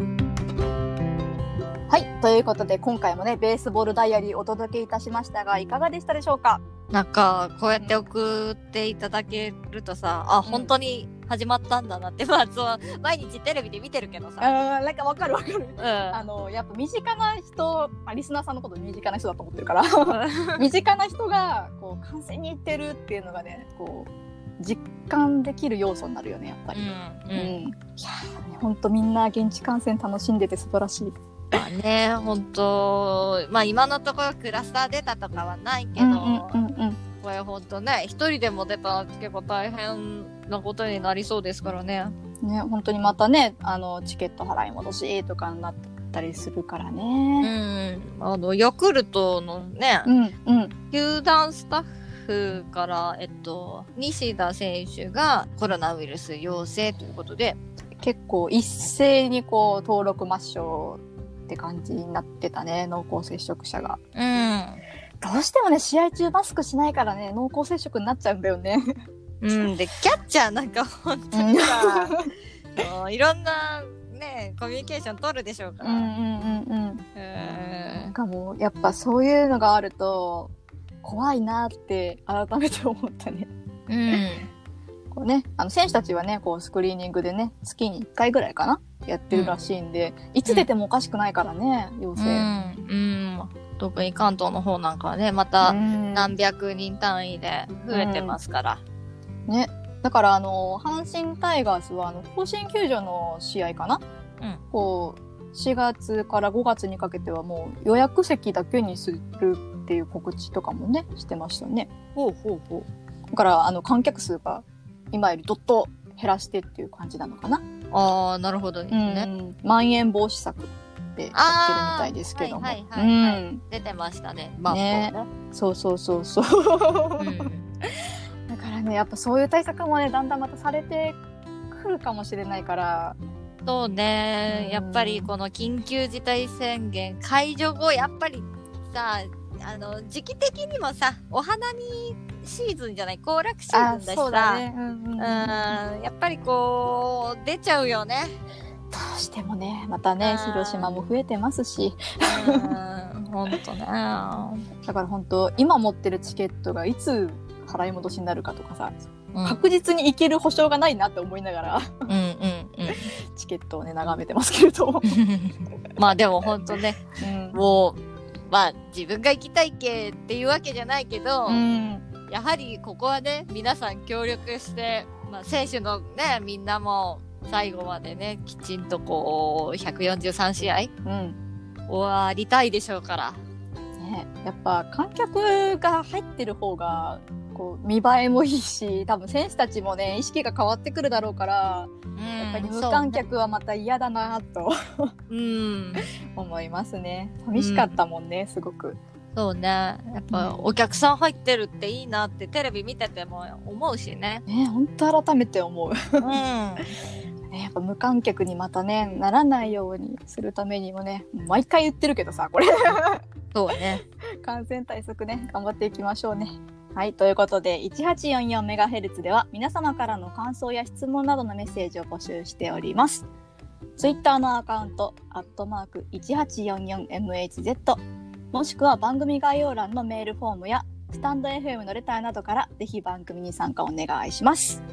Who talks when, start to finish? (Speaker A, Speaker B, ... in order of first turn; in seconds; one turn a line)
Speaker A: 1.9-6.6
Speaker B: 6.9-14.5
Speaker A: 7.8-8.1
Speaker A: 10.4-10.8
Speaker A: 14.4-31.6
Speaker B: 15.8-16.2
Speaker B: 20.1-20.6
Speaker B: 26.7-27.6
Speaker B: 31.5-36.5
Speaker A: 36.0-37.0
Speaker B: 37.2-42.1
Speaker A: 42.4-47.5
Speaker B: 47.4-50.1
Speaker A: 50.0-50.8
Speaker B: 50.9-57.6
Speaker A: 58.0-64.0
Speaker B: 64.1-64.8
Speaker A: 65.2-68.9
Speaker B: 69.4-72.1
Speaker A: 71.3-72.3
Speaker B: 72.8-76.1
Speaker A: 75.8-77.0
Speaker B: 77.2-78.1
Speaker A: 78.1-83.5
Speaker B: 83.9-84.5
Speaker A: 85.1-92.5
Speaker B: 89.3-89.5
Speaker B: 92.2-98.8
Speaker A: 95.6-96.3
Speaker A: 97.9-98.4
Speaker A: 99.5-104.0
Speaker A: 104.7-111.9
Speaker B: 112.2-112.9
Speaker A: 113.3-117.6
Speaker B: 117.9-119.3
Speaker A: 118.9-123.6
Speaker B: 121.3-125.1
Speaker A: 124.7-127.5
Speaker B: 127.2-127.7
Speaker A: 128.5-131.2
Speaker A: 131.7-133.2
Speaker B: 133.6-144.6
Speaker A: 134.5-135.3
Speaker A: 143.7-145.8
Speaker B: 145.2-148.3
Speaker A: 148.9-152.8
Speaker B: 150.2-151.1
Speaker B: 152.2-154.6
Speaker A: 154.8-162.1
Speaker B: 159.3-159.6
Speaker B: 162.1-163.1
Speaker A: 162.9-165.2
Speaker B: 165.1-167.0
Speaker A: 167.2-167.6
Speaker B: 167.5-171.6
Speaker A: 171.4-172.1
Speaker B: 172.3-180.9
Speaker A: 181.0-181.4
Speaker B: 181.9-183.4
Speaker A: 184.0-195.1
Speaker B: 192.2-193.2
Speaker B: 195.3-196.0
Speaker A: 196.3-199.0
Speaker B: 197.5-198.0
Speaker B: 199.3-204.4
Speaker A: 200.3-200.7
Speaker A: 204.5-206.4
Speaker B: 206.2-206.9
Speaker A: 207.5-213.2
Speaker B: 213.5-214.0
Speaker A: 214.4-223.2
Speaker A: 224.0-228.0
Speaker A: 228.5-234.8